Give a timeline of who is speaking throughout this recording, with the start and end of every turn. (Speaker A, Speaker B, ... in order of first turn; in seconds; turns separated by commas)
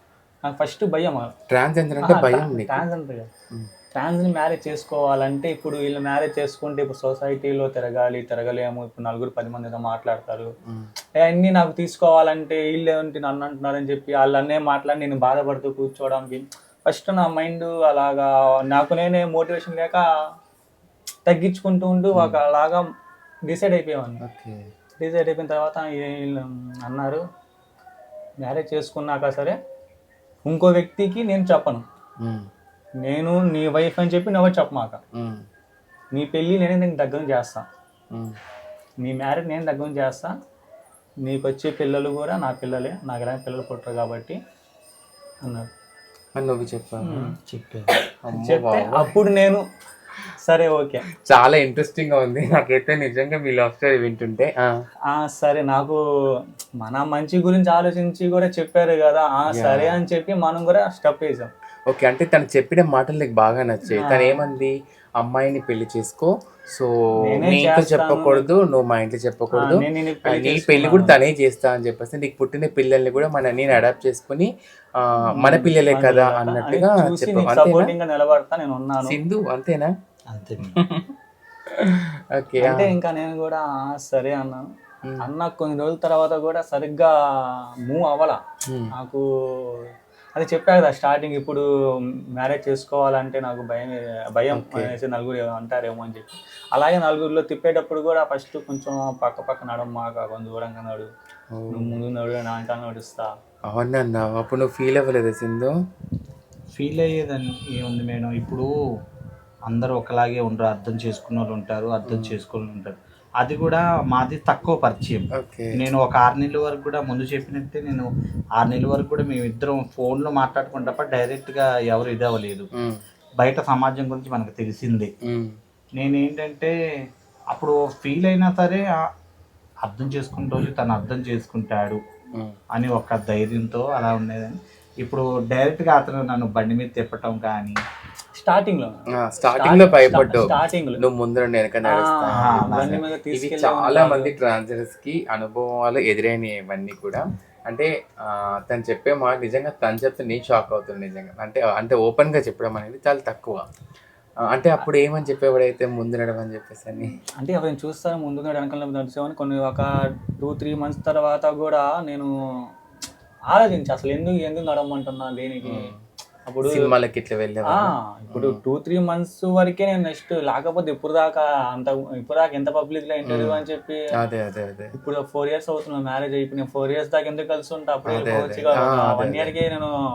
Speaker A: 0.5-1.3, Speaker B: 1.5-2.9, Speaker A: 2.0-3.3, Speaker A: 3.9-10.5, Speaker A: 11.2-20.1, Speaker A: 21.3-22.9, Speaker B: 22.1-22.4, Speaker A: 23.5-24.2, Speaker B: 24.2-24.7, Speaker A: 25.0-27.2, Speaker A: 28.4-29.6, Speaker A: 30.5-31.8, Speaker B: 32.2-32.5, Speaker A: 33.0-35.0, Speaker B: 35.1-35.5, Speaker A: 36.1-37.7, Speaker B: 38.1-38.4, Speaker A: 39.0-40.3, Speaker A: 41.2-44.4, Speaker A: 45.4-45.7, Speaker B: 46.4-47.3, Speaker A: 47.0-47.4, Speaker C: 47.5-47.9, Speaker A: 48.1-49.6, Speaker B: 48.2-49.2, Speaker A: 50.3-51.1, Speaker B: 51.2-54.8, Speaker A: 55.1-56.0, Speaker A: 56.8-61.5, Speaker B: 59.5-60.0, Speaker B: 61.9-77.9, Speaker A: 63.9-64.4, Speaker A: 67.2-68.5, Speaker A: 69.5-71.2, Speaker A: 75.3-79.2, Speaker B: 79.0-79.9, Speaker C: 80.3-80.8, Speaker B: 80.6-81.2, Speaker B: 81.7-83.0, Speaker A: 82.6-84.7, Speaker A: 85.2-87.1, Speaker A: 87.9-88.4, Speaker B: 88.7-88.9, Speaker A: 89.0-89.8, Speaker A: 90.3-91.7, Speaker A: 92.4-101.1, Speaker B: 94.5-94.9, Speaker B: 101.5-102.0, Speaker A: 101.7-103.3, Speaker B: 103.7-105.8, Speaker C: 106.8-108.7, Speaker C: 109.7-122.7, Speaker B: 112.0-112.4, Speaker B: 115.3-115.8, Speaker B: 122.8-123.0, Speaker C: 123.4-125.1, Speaker B: 125.2-125.6, Speaker C: 126.0-126.8, Speaker C: 127.5-129.0, Speaker C: 129.8-132.0, Speaker C: 132.8-137.8, Speaker A: 138.4-141.0, Speaker B: 139.1-153.6, Speaker A: 141.9-144.3, Speaker C: 142.3-143.1, Speaker B: 154.4-157.2, Speaker A: 157.4-162.3, Speaker A: 163.5-165.9, Speaker B: 165.6-166.0, Speaker A: 166.5-166.9, Speaker B: 166.7-168.6, Speaker A: 167.7-174.0, Speaker B: 173.2-173.6, Speaker B: 174.2-174.9, Speaker A: 174.9-179.9, Speaker B: 178.1-179.5